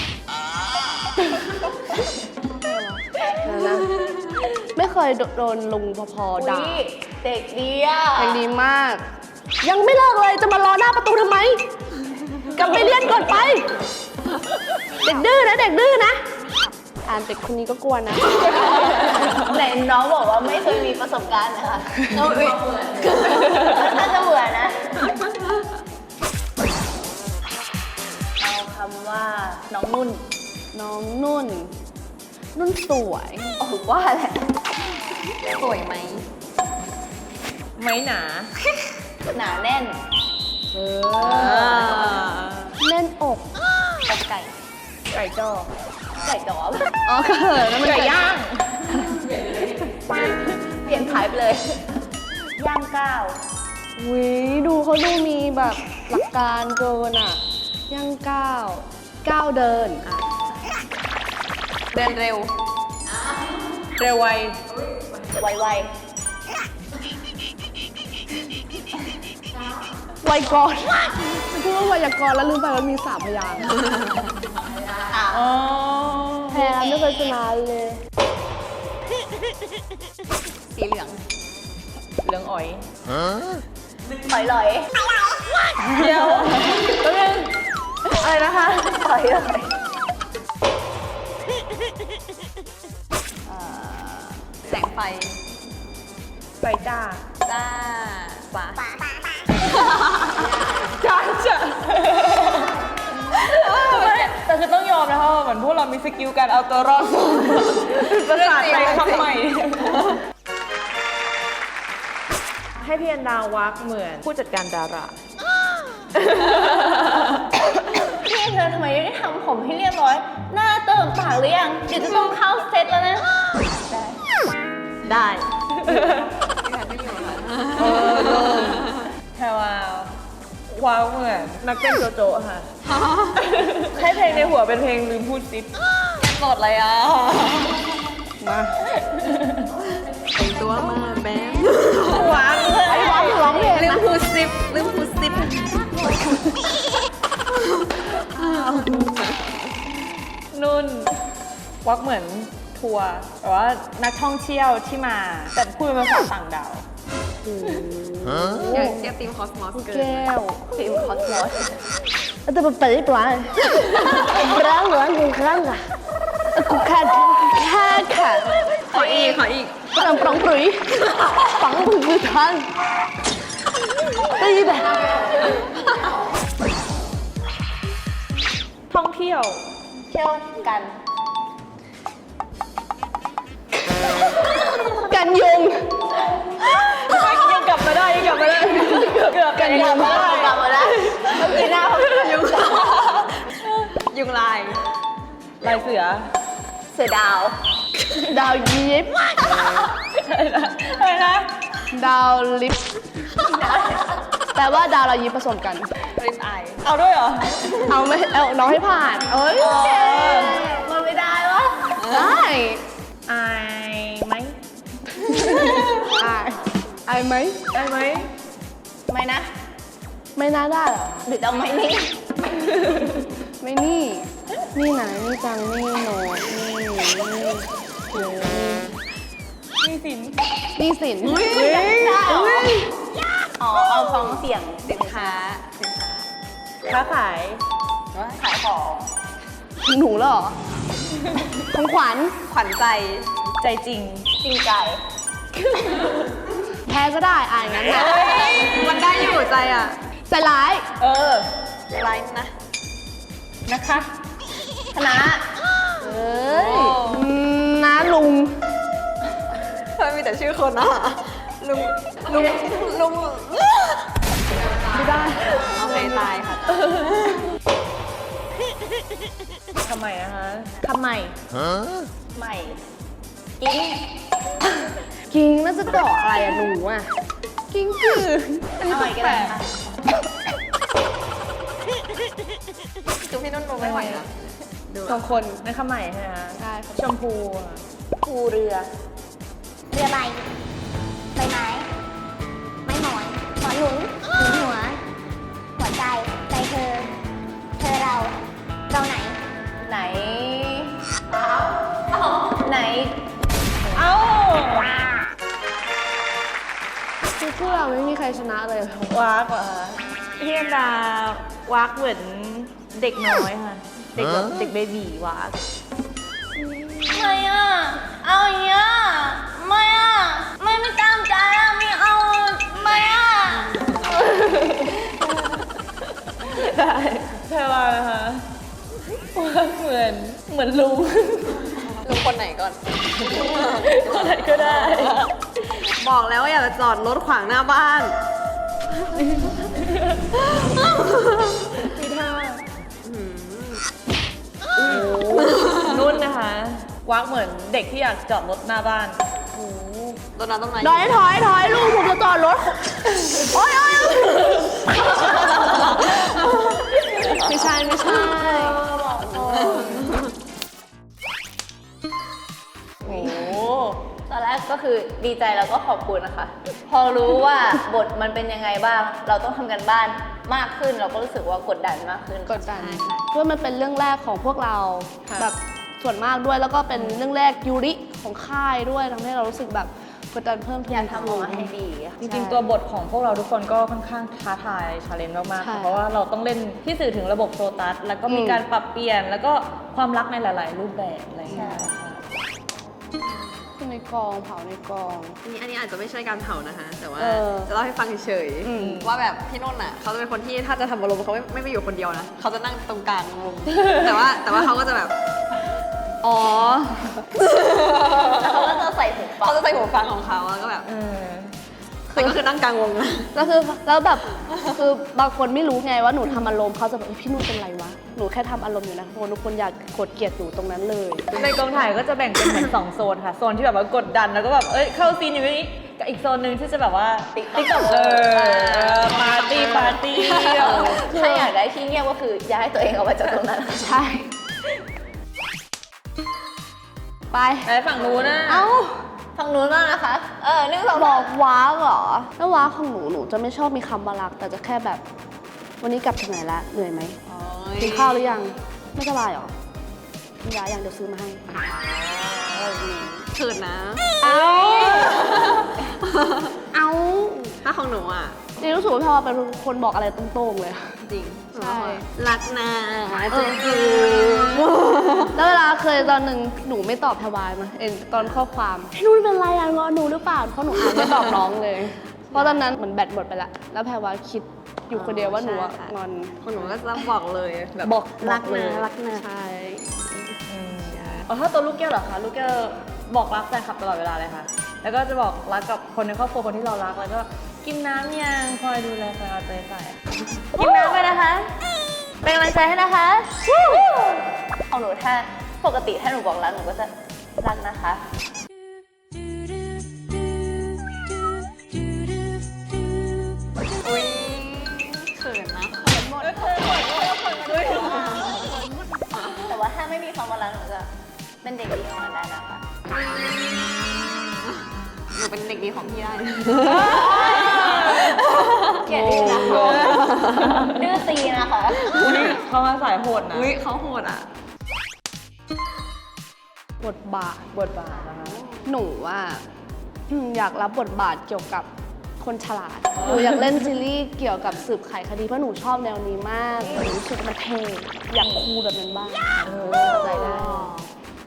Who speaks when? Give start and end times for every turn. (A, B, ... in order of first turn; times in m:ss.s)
0:02.4-0:03.9 A
0:03.2-0:03.6 B
0:03.6-0:04.4 C
0:04.7-0:06.8 A
0:06.4-0:08.4 B
0:08.2-0:09.0 A
0:09.6-0:11.6 A
0:12.5-0:13.7 A
0:15.0-0:16.2 A
0:17.0-0:19.3 A
0:19.0-0:25.2 B
0:22.1-0:24.0 C
0:28.4-0:30.2 B
0:30.7-0:31.7 A
0:32.6-0:33.6 A
0:33.6-0:34.5 B
0:35.4-0:36.3 C
0:37.8-0:38.5 D
0:39.3-0:40.0 B
0:40.7-0:41.8 A
0:41.2-0:42.7 C
0:41.3-0:42.3 D
0:41.3-0:41.8 B
0:42.8-0:43.5 A
0:45.1-0:45.7 A
0:46.2-0:47.0 B
0:47.0-0:48.3 A
0:47.8-0:49.0 D
0:50.7-0:51.8 B
0:52.6-0:53.4 B
0:54.0-1:00.1 A
1:00.0-1:00.4 C
1:01.9-1:02.5 C
1:03.2-1:03.9 C
1:04.0-1:04.6 D
1:04.8-1:05.1 C
1:05.4-1:05.9 B
1:10.2-1:13.8 A
1:13.8-1:14.3 C
1:15.1-1:15.5 B
1:15.3-1:16.7 D
1:16.5-1:18.0 A
1:16.7-1:17.3 B
1:20.7-1:21.2 C
1:22.2-1:22.9 D
1:24.1-1:25.0 B
1:25.8-1:27.6 D
1:28.1-1:29.0 D
1:28.9-1:29.7 B
1:34.6-1:35.4 C
1:36.6-1:37.2 D
1:37.4-1:39.0 C
1:39.7-1:40.5 C
1:40.8-1:42.7 D
1:43.3-1:44.3 C
1:43.6-1:50.1 D
1:48.1-1:49.4 C
1:52.8-1:55.2 D
1:56.8-1:57.3 D
1:58.1-2:04.2 B
2:05.0-2:06.3 D
2:06.0-2:09.0 C
2:07.8-2:10.1 D
2:10.7-2:12.7 D
2:12.9-2:13.4 C
2:13.4-2:15.7 D
2:16.2-2:18.2 C
2:18.4-2:18.8 A
2:19.1-2:19.6 D
2:20.1-2:26.1 C
2:22.0-2:23.6 D
2:22.8-2:24.0 A
2:23.2-2:23.7 B
2:27.6-2:29.8 C
2:30.5-2:31.2 D
2:31.8-2:36.8 D
2:37.4-2:39.1 A
2:38.7-2:40.3 C
2:39.7-2:40.7 A
2:40.7-2:41.8 B
2:42.5-2:45.8 A
2:46.5-2:48.5 A
2:48.8-2:49.8 C
2:48.9-2:49.5 B
2:49.9-2:52.7 A
2:54.3-2:55.6 A
2:58.9-2:59.7 D
3:00.1-3:00.9 B
3:05.0-3:06.0 A
3:07.0-3:10.6 D
3:09.5-3:12.9 B
3:09.6-3:10.2 A
3:10.8-3:14.8 C
3:15.6-3:16.3 D
3:16.9-3:17.6 B
3:18.3-3:19.5 A
3:19.9-3:21.5 D
3:21.9-3:22.8 A
3:23.4-3:24.2 B
3:24.5-3:25.9 A
3:26.2-3:26.8 C
3:26.8-3:27.6 D
3:27.6-3:28.0 C
3:27.9-3:29.5 A
3:29.3-3:30.6 D
3:29.6-3:32.0 B
3:32.0-3:32.4 C
3:32.1-3:32.8 A
3:33.3-3:34.6 D
3:36.0-3:37.6 A
3:37.7-3:38.3 D
3:39.1-3:39.5 B
3:40.4-3:41.3 A
3:41.2-3:42.3 B
3:43.6-3:49.0 A
3:49.8-3:50.4 D
3:50.8-3:51.6 A
3:51.2-3:52.9 C
3:51.5-3:51.9 D
3:51.7-3:52.8 B
3:53.6-3:55.4 B
3:54.8-3:56.3 C
3:56.9-3:57.6 D
3:58.1-3:58.5 C
3:58.4-3:59.1 B
3:59.8-4:00.6 A
4:01.6-4:02.4 A
4:02.5-4:03.4 C
4:03.6-4:04.3 D
4:04.3-4:05.0 B
4:06.8-4:08.3 A
4:08.0-4:10.0 C
4:08.3-4:08.9 D
4:10.3-4:10.9 A
4:11.0-4:11.5 D
4:11.9-4:12.5 C
4:13.7-4:14.1 D
4:14.9-4:15.4 B
4:16.0-4:18.6 A
4:16.5-4:17.3 C
4:20.0-4:27.4 C
4:24.9-4:26.3 A
4:29.8-4:31.4 D
4:32.4-4:32.8 B
4:33.6-4:34.0 B
4:35.3-4:37.1 A
4:37.7-4:39.6 A
4:38.8-4:39.8 B
4:43.2-4:45.4 C
4:43.8-4:44.2 D
4:45.1-4:45.6 A
4:45.6-4:47.8 D
4:46.6-4:47.1 A
4:48.2-4:48.9 B
4:50.0-4:50.4 E
4:51.4-4:51.9 E
4:52.9-4:55.0 E
4:55.8-4:57.1 E
4:57.8-4:58.4 E
4:58.9-4:59.4 E
4:59.8-5:01.0 B
5:02.6-5:03.2 B
5:03.9-5:05.0 D
5:07.4-5:09.3 A
5:09.1-5:15.6 D
5:17.1-5:24.0 B
5:24.0-5:25.0 D
5:26.4-5:28.4 D
5:29.3-5:31.7 D
5:32.0-5:35.1 C
5:33.3-5:35.3 D
5:36.0-5:38.2 C
5:40.4-5:41.7 C
5:41.8-5:42.6 D
5:43.0-5:43.8 C
5:44.8-5:49.2 D
5:49.6-5:50.2 A
5:50.4-5:51.2 C
5:50.8-5:54.4 A
5:55.7-5:56.2 C
5:56.8-6:00.1 B
5:57.3-5:59.8 A
5:59.6-6:00.2 C
6:03.1-6:03.6 B
6:03.1-6:03.5 A
6:03.5-6:04.0 D
6:04.2-6:12.6 B
6:12.5-6:21.7 A
6:12.6-6:13.2 C
6:17.0-6:17.3 D
6:20.9-6:22.2 B
6:22.2-6:32.2 D
6:22.2-6:22.6 A
6:25.6-6:26.0 A
6:28.3-6:28.6 A
6:31.5-6:31.9 B
6:33.8-6:35.4 A
6:35.4-6:45.2 C
6:37.2-6:37.7 A
6:38.6-6:39.1 A
6:38.7-6:39.1 D
6:46.2-6:47.2 A
6:47.4-6:48.9 C
6:48.3-6:49.7 B
6:49.4-6:50.9 C
6:50.8-6:51.5 D
6:52.1-6:53.4 C
6:52.1-6:52.4 A
6:53.3-7:01.4 A
7:01.3-7:10.9 D
7:07.3-7:08.3 B
7:08.3-7:11.5 C
7:10.9-7:14.0 B
7:13.8-7:14.3 A
7:17.3-7:19.0 A
7:17.6-7:18.7 D
7:19.4-7:21.3 B
7:20.9-7:25.0 A
7:25.8-7:27.2 A
7:27.3-7:28.4 C
7:27.8-7:29.5 A
7:30.4-7:31.4 A
7:32.5-7:33.3 A
7:33.3-7:36.6 C
7:34.2-7:35.3 A
7:36.7-7:37.6 A
7:37.6-7:38.4 C
7:38.6-7:41.0 A
7:41.0-7:45.4 C
7:41.6-7:42.1 A
7:43.3-7:44.7 A
7:45.3-7:56.4 A
7:48.2-7:48.4 C
7:52.3-7:52.8 C
7:54.9-7:59.2 C
7:58.2-8:00.0 A
7:58.5-7:58.9 D
8:00.2-8:01.3 C
8:00.5-8:10.0 D
8:10.5-8:11.6 D
8:10.6-8:11.0 C
8:12.2-8:13.5 D
8:13.6-8:18.0 B
8:23.8-8:28.6 C
8:26.4-8:28.5 D
8:29.1-8:29.5 C
8:29.4-8:30.9 B
8:31.4-8:32.6 B
8:33.0-8:34.6 C
8:35.1-8:40.7 C
8:36.6-8:38.3 D
8:37.1-8:37.6 B
8:38.8-8:40.0 B
8:38.9-8:40.0 A
8:39.3-8:40.8 D
8:40.8-8:41.9 B
8:41.8-8:42.4 C
8:41.9-8:43.5 D
8:43.3-8:44.3 C
8:46.8-8:47.7 A
8:47.6-8:48.4 D
8:48.2-8:48.7 C
8:48.6-8:49.4 A
8:50.1-8:51.7 A
8:52.2-9:00.7 A
8:53.1-8:53.4 D
8:59.4-9:00.9 C
8:59.4-9:00.6 D